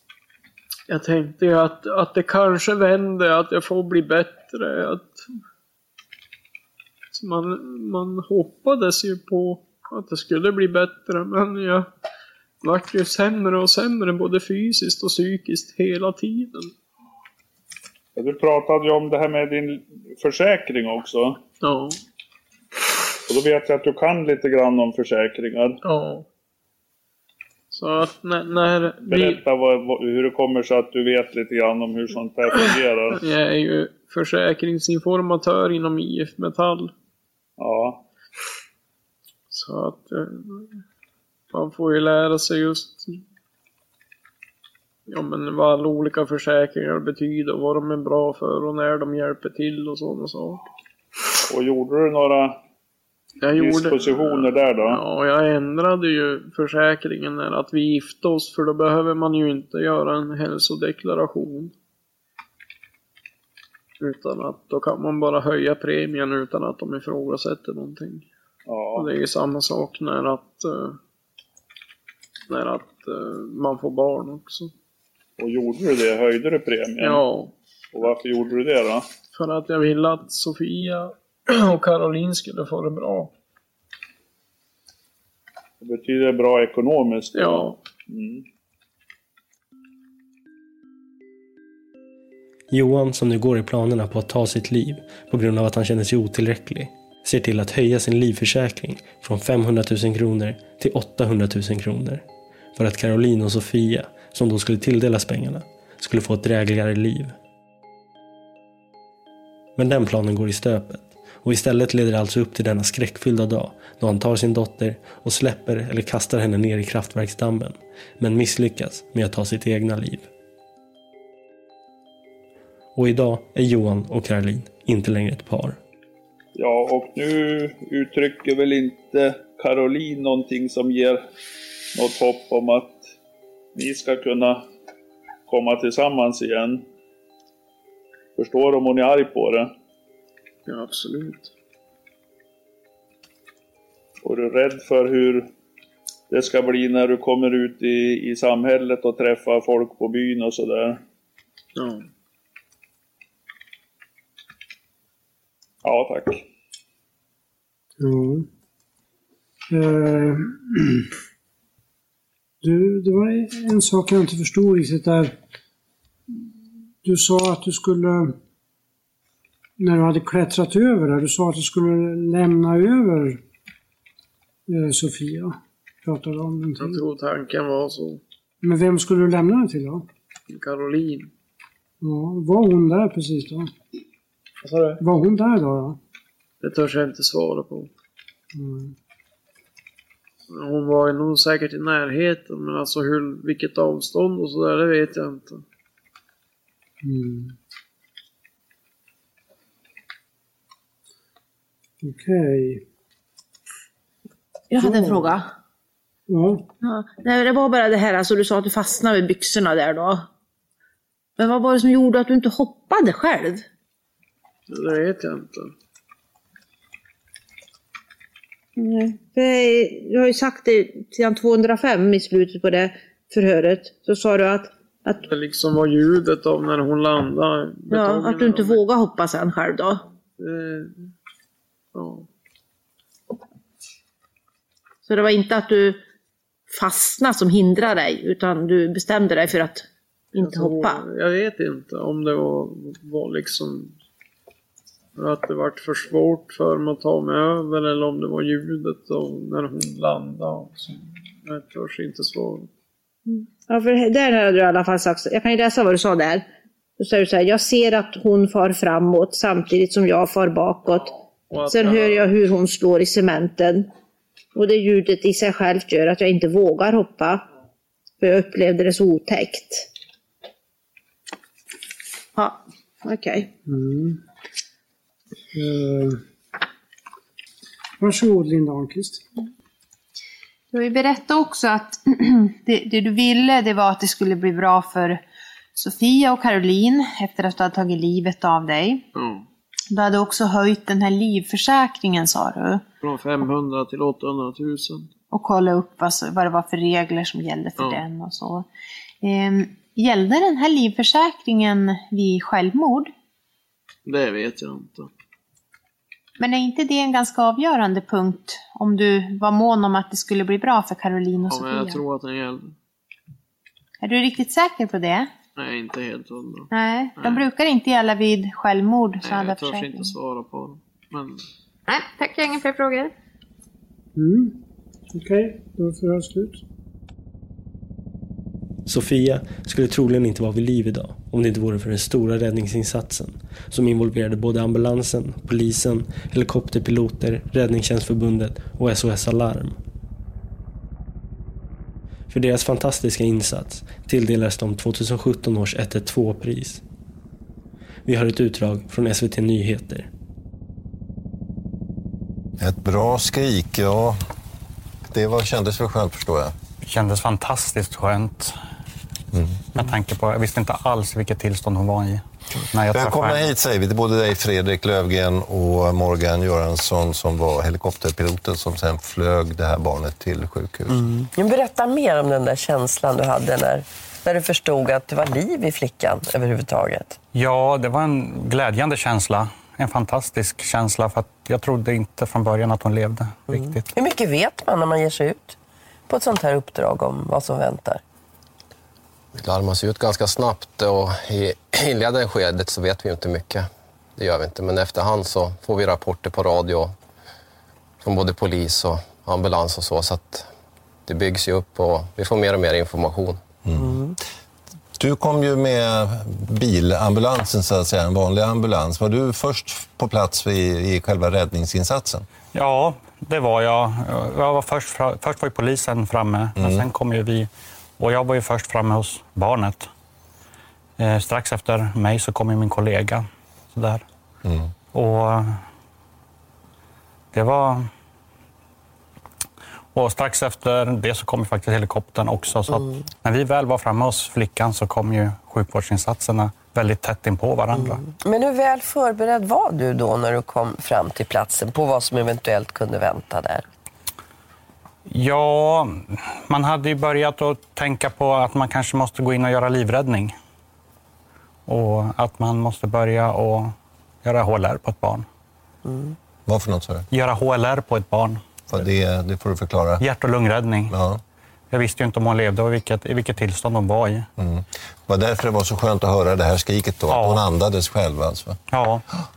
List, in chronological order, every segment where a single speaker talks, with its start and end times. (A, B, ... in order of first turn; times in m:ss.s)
0:00.9-0:05.2 A
0:07.1-0:11.9 A
0:12.6-0:16.7 A
0:18.2-0:21.4 B
0:21.6-0:22.0 A
0:23.3-0:25.8 B
0:25.8-0:26.2 A
0:27.7-0:29.4 A
0:29.0-0:33.2 B
0:32.5-0:36.9 A
0:37.6-0:38.0 B
0:39.5-0:40.8 A
0:41.5-0:43.2 A
0:45.1-0:50.6 A
0:51.5-0:52.6 B
0:53.4-1:01.7 A
0:53.6-0:55.0 B
1:04.0-1:08.2 A
1:08.7-1:09.1 B
1:08.9-1:11.0 A
1:12.5-1:14.7 A
1:15.4-1:17.2 B
1:17.0-1:17.5 A
1:17.9-1:19.0 B
1:19.3-1:23.3 A
1:25.8-1:28.4 B
1:27.3-1:27.8 A
1:32.7-1:42.2 C
1:42.8-1:47.3 C
1:49.8-2:00.3 C
2:03.0-2:05.8 C
2:06.5-2:11.2 B
2:12.0-2:13.1 B
2:13.7-2:14.6 B
2:15.5-2:16.8 B
2:18.4-2:19.7 B
2:20.7-2:21.5 A
2:24.2-2:25.5 B
2:26.3-2:31.0 B
2:31.8-2:32.0 A
2:35.8-2:36.4 B
2:38.0-2:38.5 D
2:39.7-2:41.1 D
2:42.6-2:45.4 D
2:47.0-2:48.4 D
2:49.8-2:53.4 D
2:54.7-2:57.0 D
2:56.8-2:58.2 A
2:58.6-3:00.0 D
3:00.5-3:01.3 A
3:02.0-3:03.7 D
3:04.6-3:05.0 A
3:05.0-3:06.0 D
3:06.6-3:07.9 A
3:08.5-3:08.9 D
3:10.5-3:15.6 A
3:17.0-3:17.5 D
3:22.0-3:22.8 D
3:24.7-3:25.5 E
3:24.8-3:25.3 D
3:26.3-3:26.6 D
3:26.8-3:30.2 E
3:31.4-3:33.6 E
3:34.7-3:35.7 A
3:38.8-3:45.2 E
3:45.2-3:48.8 A
3:47.9-3:50.0 E
3:50.4-3:51.1 A
3:51.9-3:52.3 A
3:55.0-3:56.0 E
3:56.7-4:01.0 E
4:00.4-4:03.9 A
4:05.2-4:12.7 A
4:13.3-4:16.4 E
4:17.0-4:21.1 E
4:21.5-4:22.3 A
4:21.6-4:23.9 E
4:24.5-4:27.4 E
4:28.2-4:29.9 E
4:32.4-4:33.5 E
4:33.6-4:34.2 D
4:35.5-4:36.2 D
4:38.0-4:39.2 D
4:40.7-4:45.2 F
4:45.7-4:49.0 F
4:49.1-4:49.4 A
4:49.9-4:52.8 F
4:53.0-4:55.1 A
4:55.3-4:58.7 F
4:59.2-5:03.1 F
5:04.0-5:05.1 A
5:06.4-5:12.0 F
5:11.5-5:12.7 A
5:14.0-5:15.3 F
5:15.6-5:17.4 A
5:16.7-5:20.1 F
5:19.2-5:21.4 A
5:21.9-5:23.1 F
5:24.2-5:24.6 D
5:25.1-5:26.6 D
5:28.8-5:39.8 C
5:42.3-5:46.8 C
5:48.0-5:50.1 C
5:52.6-5:54.2 G
5:55.1-5:56.5 G
5:56.8-5:58.6 H
5:59.7-6:03.5 H
6:02.9-6:11.0 G
6:10.9-6:17.2 I
6:17.3-6:23.8 H
6:23.5-6:25.6 I
6:26.1-6:28.0 I
6:29.4-6:36.9 J
6:38.0-6:40.5 J
6:41.0-6:43.4 J
6:43.6-6:44.1 G
6:43.8-6:44.1 I
6:45.0-6:52.2 G
6:52.5-6:59.9 H
6:56.6-6:56.9 G
7:01.0-7:04.0 H
7:04.4-7:04.7 G
7:04.9-7:05.6 H
7:07.3-7:07.9 H
7:09.9-7:18.0 H
7:12.7-7:13.0 I
7:17.7-7:23.6 I
7:25.1-7:30.4 H
7:31.7-7:35.2 H
7:35.8-7:36.1 I
7:36.5-7:37.0 G
7:37.1-7:38.4 H
7:38.7-7:40.0 G
7:40.0-7:40.9 H
7:40.9-7:41.2 G
7:41.7-7:44.3 H
7:44.4-7:48.6 G
7:47.1-7:47.4 H
7:48.7-7:49.0 H